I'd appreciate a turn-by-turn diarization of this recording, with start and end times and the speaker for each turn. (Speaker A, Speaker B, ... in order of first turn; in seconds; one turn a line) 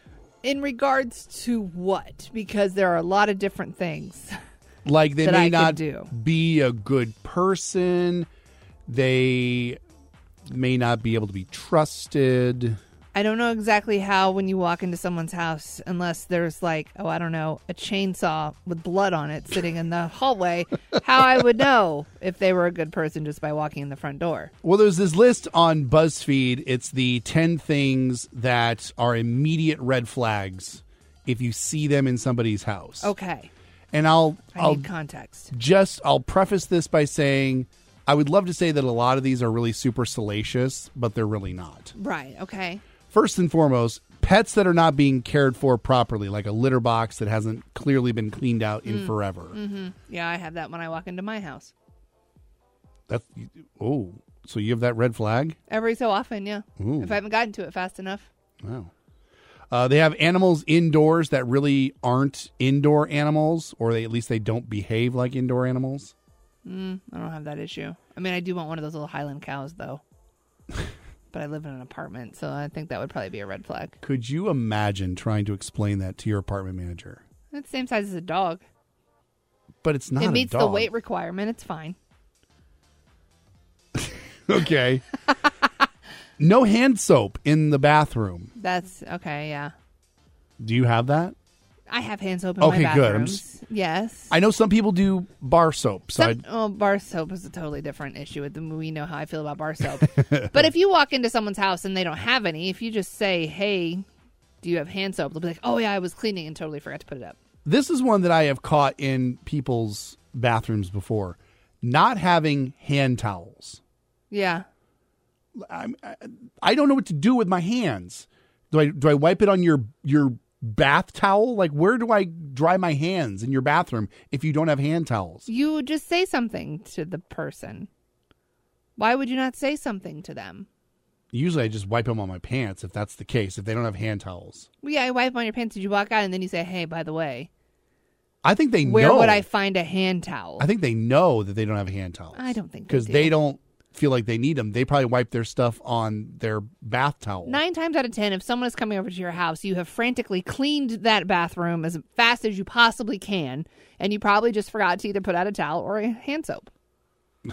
Speaker A: 0.4-4.3
Speaker B: 4.8-8.3
Speaker A: 5.2-6.1
Speaker B: 8.9-9.8
Speaker B: 10.5-12.8
Speaker A: 13.1-24.5
Speaker B: 24.6-33.1
Speaker A: 33.0-33.5
Speaker B: 33.9-34.9
Speaker A: 34.5-35.5
Speaker B: 35.5-41.9
Speaker A: 42.0-42.8
Speaker B: 43.1-49.6
Speaker A: 48.9-51.7
Speaker B: 53.1-55.6
Speaker A: 55.7-58.3
Speaker B: 56.8-57.2
Speaker B: 58.6-58.9
Speaker B: 59.7-66.1
Speaker A: 66.7-70.0
Speaker A: 71.3-74.0
Speaker B: 74.0-77.2
Speaker A: 77.5-78.6
Speaker B: 79.8-80.9
Speaker A: 80.2-82.0
Speaker B: 84.0-85.0
Speaker B: 86.4-88.5
Speaker A: 88.6-89.7
Speaker B: 90.6-91.3
Speaker A: 91.9-94.3
Speaker B: 92.6-93.5
Speaker B: 94.3-96.4
Speaker A: 96.2-104.1
Speaker B: 100.2-100.7
Speaker A: 104.6-107.4
Speaker B: 107.7-113.8
Speaker A: 114.3-114.7
Speaker B: 115.6-125.5
Speaker A: 125.5-127.9
Speaker A: 129.0-130.7
Speaker B: 131.3-134.7
Speaker A: 134.8-137.5
Speaker B: 138.4-139.5
Speaker A: 138.8-140.7
Speaker B: 140.6-147.6
Speaker A: 142.3-143.3
Speaker A: 147.4-156.7